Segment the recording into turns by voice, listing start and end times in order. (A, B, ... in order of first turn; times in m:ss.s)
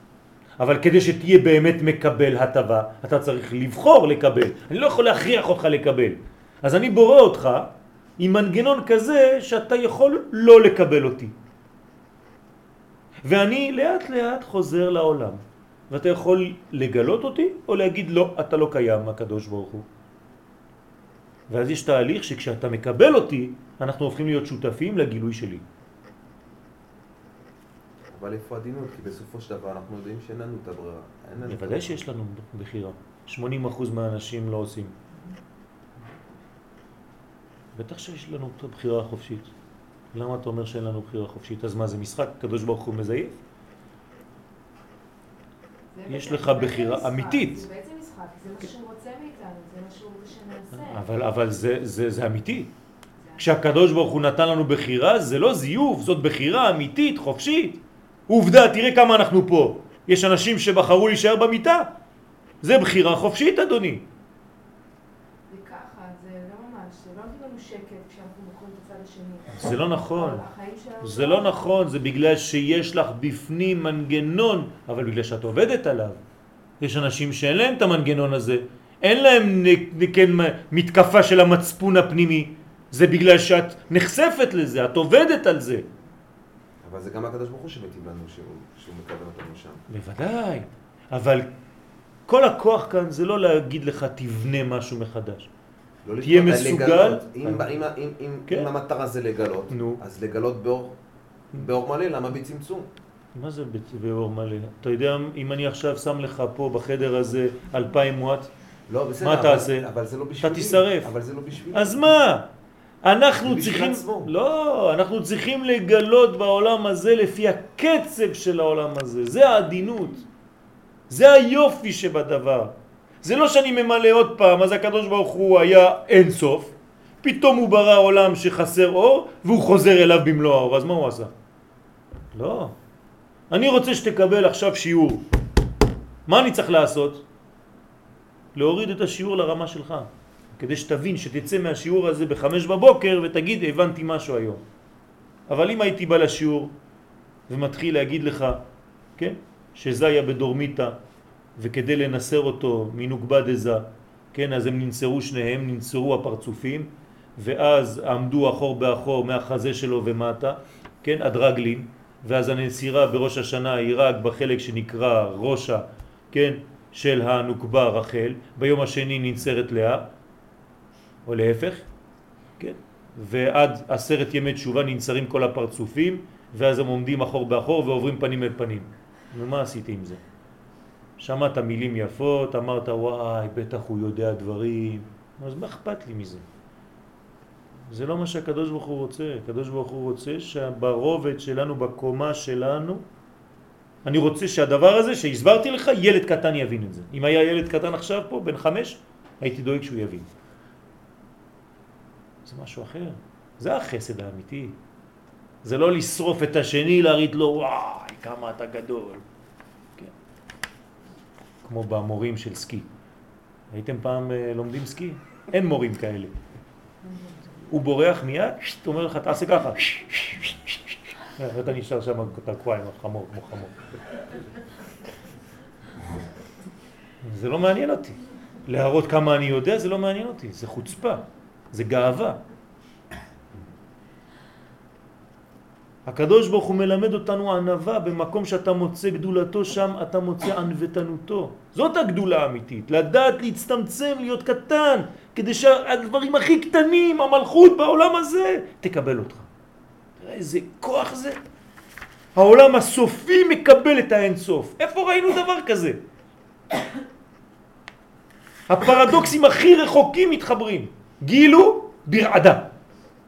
0:00.6-0:11.3 A
0:13.3-0:19.9 A
0:21.5-0:25.6 A
0:28.1-0:32.1 B
0:31.4-0:34.9 A
0:37.8-0:39.5 A
0:40.1-0:43.4 A
0:45.9-0:51.0 C
0:46.1-0:47.6 A
0:50.7-0:52.7 A
0:53.2-0:53.5 C
0:53.4-1:01.9 A
1:02.6-1:04.0 A
1:05.5-1:11.7 C
1:09.5-1:10.5 A
1:11.0-1:16.2 A
1:16.8-1:25.9 A
1:26.8-1:29.8 B
1:29.9-1:31.5 A
1:32.3-1:35.5 A
1:36.0-1:41.0 B
1:36.2-1:37.7 A
1:39.7-1:40.0 A
1:41.5-1:42.9 B
1:43.4-1:48.5 A
1:48.9-1:52.0 B
1:49.2-1:51.1 A
1:51.7-1:52.5 A
1:53.0-2:00.2 A
1:53.3-1:54.3 B
2:01.1-2:11.3 A
2:12.3-2:12.8 A
2:13.5-2:15.2 A
2:16.3-2:17.2 A
2:18.6-2:24.6 A
2:25.5-2:26.8 A
2:27.5-2:28.6 A
2:29.2-2:31.0 A
2:31.6-2:50.1 A
2:51.3-2:51.9 A
2:52.6-3:00.2 A
3:01.2-3:06.4 A
3:07.9-3:13.0 A
3:14.0-3:20.3 A
3:22.5-3:24.8 A
3:25.6-3:29.2 A
3:31.6-3:32.9 A
3:33.7-3:36.3 A
3:37.7-3:43.8 A
3:47.2-3:52.4 A
3:56.1-4:09.5 A
4:10.2-4:11.4 A
4:12.4-4:16.0 A
4:18.7-4:22.7 A